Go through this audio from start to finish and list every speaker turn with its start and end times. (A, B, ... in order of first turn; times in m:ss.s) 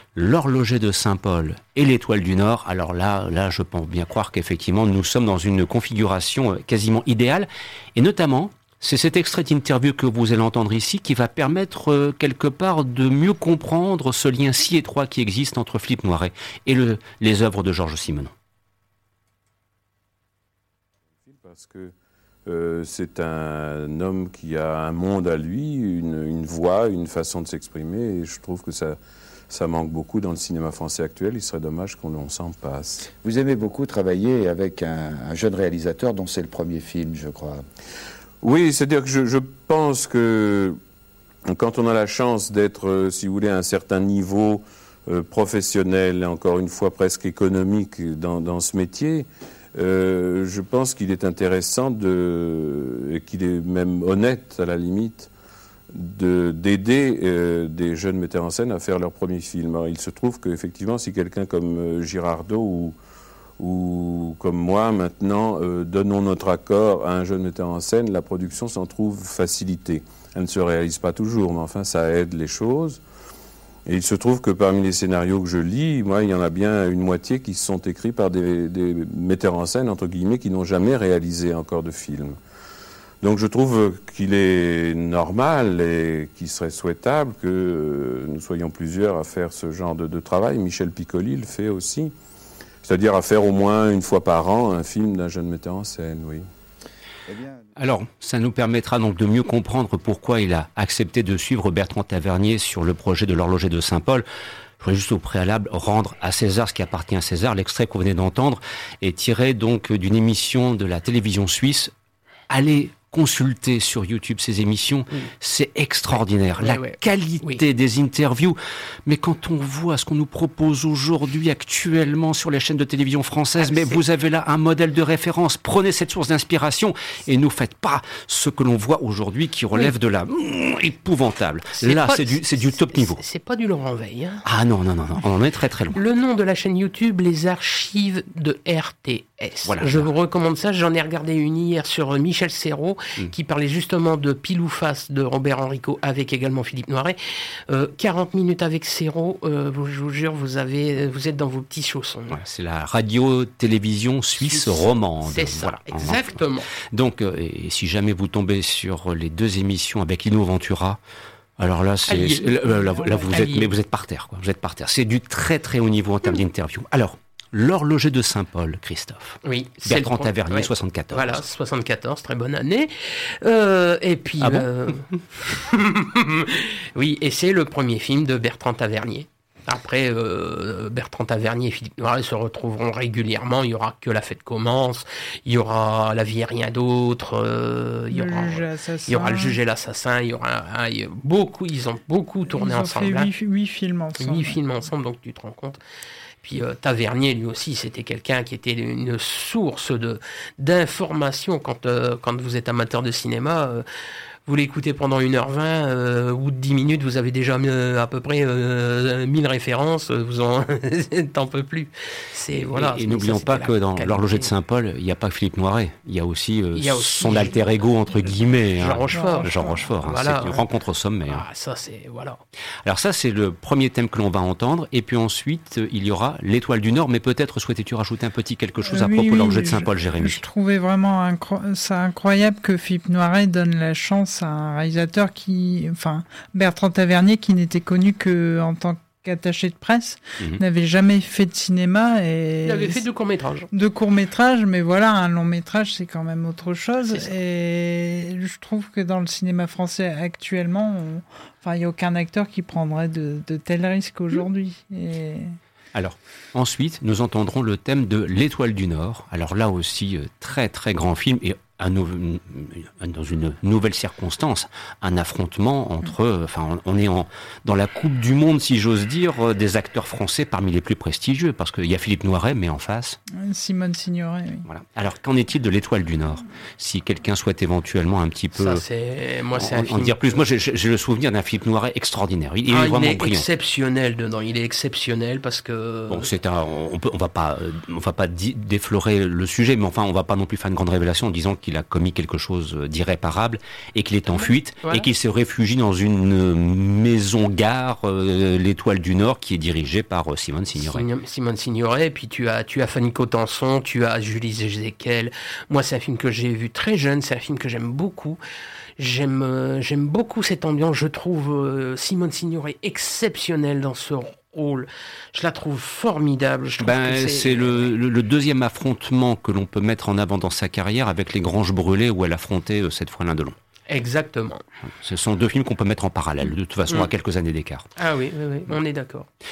0:00.2-0:18.3 A
0:21.3-0:21.9 B
0:22.5-0:29.0 B
0:29.5-0:33.1 B
0:33.1-0:37.6 C
0:38.4-0:40.8 B
0:41.5-0:55.3 B
0:55.9-1:03.0 B
1:03.6-1:13.0 B
1:13.9-1:22.4 B
1:23.2-1:32.1 B
1:32.8-1:36.5 B
1:37.3-1:37.6 C
1:37.8-1:44.2 A
1:44.8-1:51.9 A
1:52.5-2:13.2 A
1:56.1-1:57.6 D
2:03.6-2:04.0 D
2:11.8-2:14.5 D
2:14.4-2:16.0 A
2:15.9-2:27.2 D
2:19.6-2:20.1 A
2:27.7-2:32.4 D
2:32.3-2:41.0 A
2:34.4-2:36.7 D
2:41.6-2:51.4 A
2:42.1-2:43.7 D
2:49.4-3:13.3 D
2:54.4-2:54.7 A
3:08.1-3:09.6 E
3:12.5-3:14.6 E
3:14.2-3:15.8 D
3:16.4-3:23.8 D
3:24.5-3:34.5 D
3:32.7-3:41.4 A
3:36.8-3:37.6 D
3:38.8-3:40.6 D
3:39.1-3:39.8 E
3:41.3-3:42.4 D
3:42.8-3:50.4 A
3:48.9-4:03.0 E
4:02.6-4:03.7 D
4:03.7-4:15.6 E
4:15.9-4:33.2 A
4:33.3-4:34.7 E
4:34.7-4:38.8 A
4:38.6-4:40.4 D
4:39.6-4:43.5 A
4:42.7-4:46.3 D
4:46.1-5:01.1 A
4:54.8-4:55.1 D
5:00.8-5:08.4 D
5:09.0-5:18.0 D
5:16.8-5:23.6 A
5:23.9-5:24.6 D
5:24.9-5:27.9 A
5:28.0-5:29.3 D